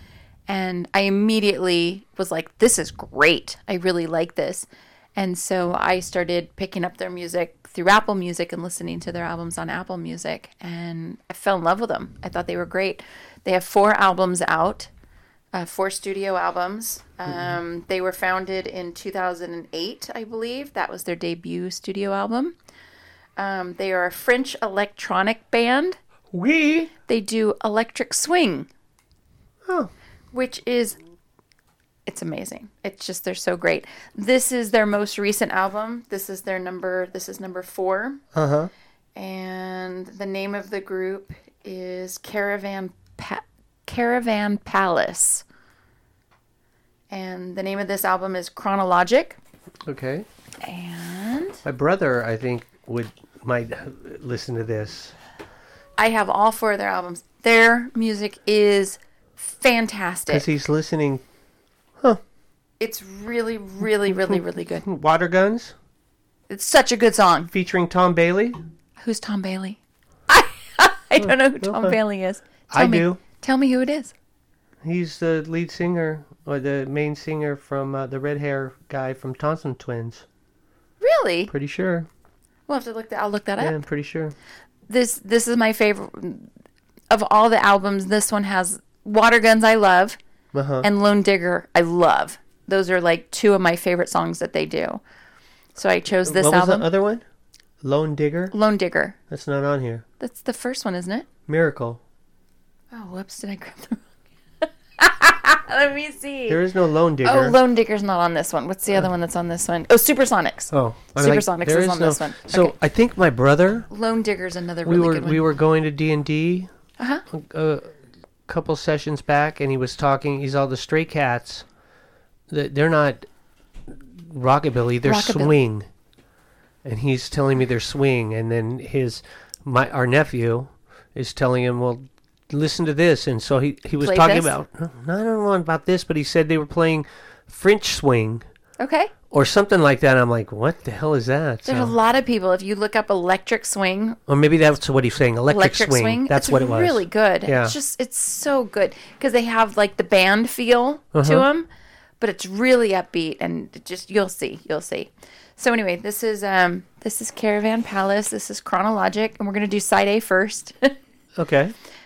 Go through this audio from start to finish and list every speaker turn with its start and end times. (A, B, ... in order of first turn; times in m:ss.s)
0:00.5-0:14.9 A
0:15.5-0:22.6 A
0:23.4-0:26.0 A
0:26.3-0:26.9 B
0:27.1-0:28.7 A
0:29.6-0:29.9 B
0:30.3-0:31.0 A
0:32.0-0:38.2 A
0:38.3-0:38.7 B
0:39.1-0:45.4 A
0:47.1-0:49.4 A
0:49.8-0:50.3 B
0:50.6-0:51.6 A
0:51.6-0:55.1 B
0:56.0-1:00.5 A
1:00.3-1:01.2 B
1:02.8-1:04.8 A
1:04.1-1:05.7 B
1:06.5-1:07.5 A
1:07.5-1:08.6 B
1:09.0-1:14.1 A
1:11.2-1:12.0 B
1:12.7-1:13.2 B
1:14.8-1:20.2 B
1:21.0-1:21.5 A
1:21.5-1:22.1 B
1:22.7-1:23.8 A
1:23.6-1:24.3 B
1:24.9-1:26.5 A
1:27.1-1:30.2 A
1:30.5-1:30.9 B
1:30.8-1:35.0 A
1:35.8-1:36.9 A
1:36.2-1:37.2 B
1:37.8-1:38.5 B
1:38.5-1:39.2 A
1:39.3-1:40.0 B
1:40.2-1:41.3 A
1:41.5-1:42.0 B
1:42.9-1:44.0 A
1:44.6-1:46.6 A
1:46.5-1:47.6 B
1:47.2-1:52.7 A
1:50.7-1:53.9 B
1:53.9-1:55.4 A
1:54.8-1:56.7 B
1:57.0-1:57.2 A
1:57.3-1:58.0 B
1:58.5-2:01.6 B
2:02.5-2:03.3 B
2:03.9-2:05.9 B
2:05.0-2:05.5 A
2:06.8-2:18.4 B
2:14.0-2:14.5 A
2:18.8-2:19.1 A
2:19.3-2:21.9 B
2:21.6-2:24.2 A
2:24.3-2:27.8 B
2:25.5-2:31.7 A
2:31.1-2:31.5 B
2:32.2-2:41.0 A
2:41.4-2:41.7 B